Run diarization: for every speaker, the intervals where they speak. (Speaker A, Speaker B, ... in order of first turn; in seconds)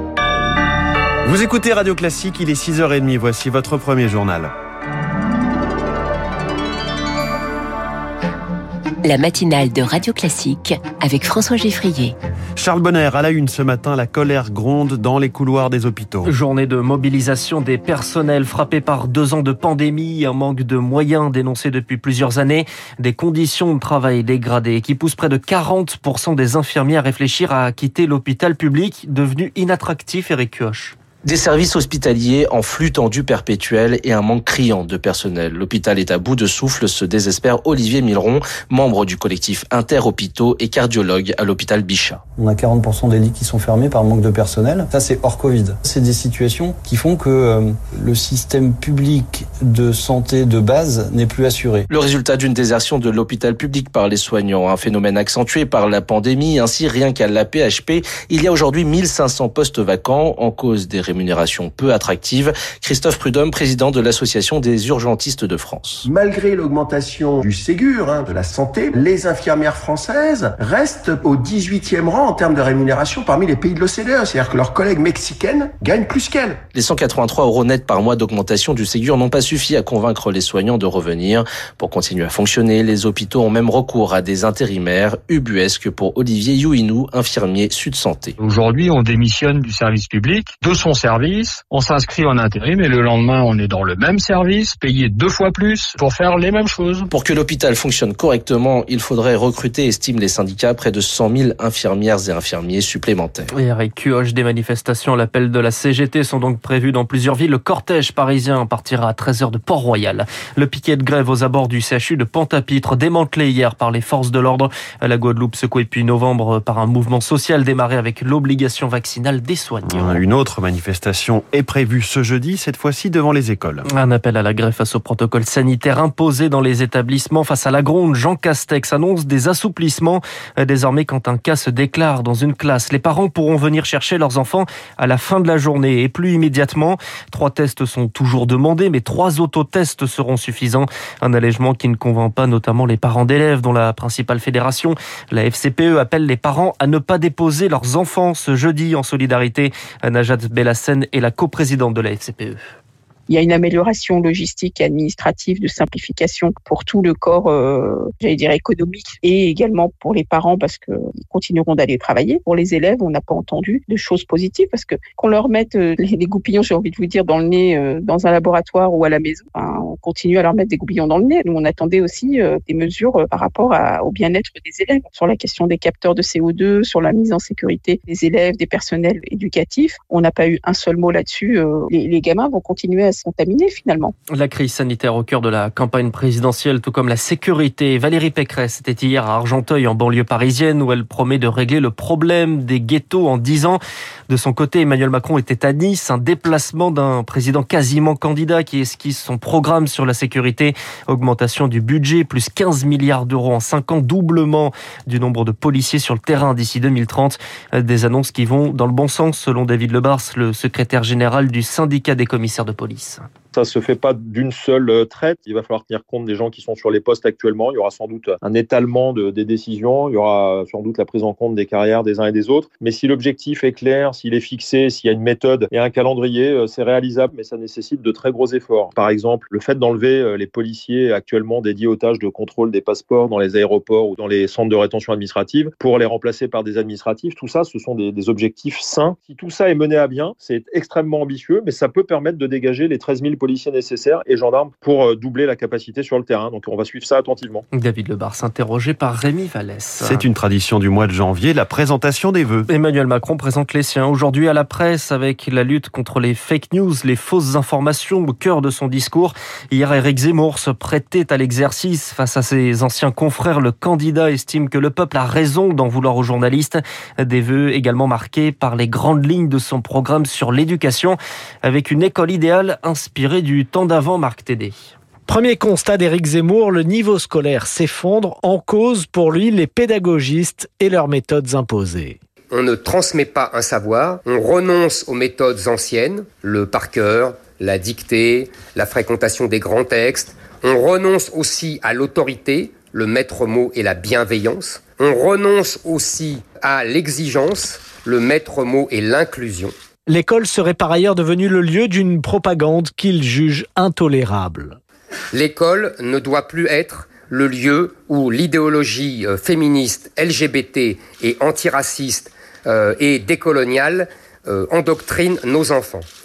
Speaker A: 1.2-4.5, 12.6-16.3, 119.9-123.9, 250.0-252.7
Speaker B: 9.0-12.2
Speaker C: 16.2-30.9, 103.6-120.2, 123.9-152.7, 184.3-213.2, 247.7-250.3, 252.7-274.8
Speaker D: 31.3-42.2, 51.9-66.0, 76.8-88.3, 97.2-103.5
Speaker E: 42.4-51.9
Speaker F: 66.0-76.6
Speaker G: 88.4-97.1
Speaker H: 153.3-184.1
Speaker I: 213.6-247.7
Speaker J: 275.3-282.2, 300.1-304.8
Speaker K: 282.5-299.7, 305.3-316.1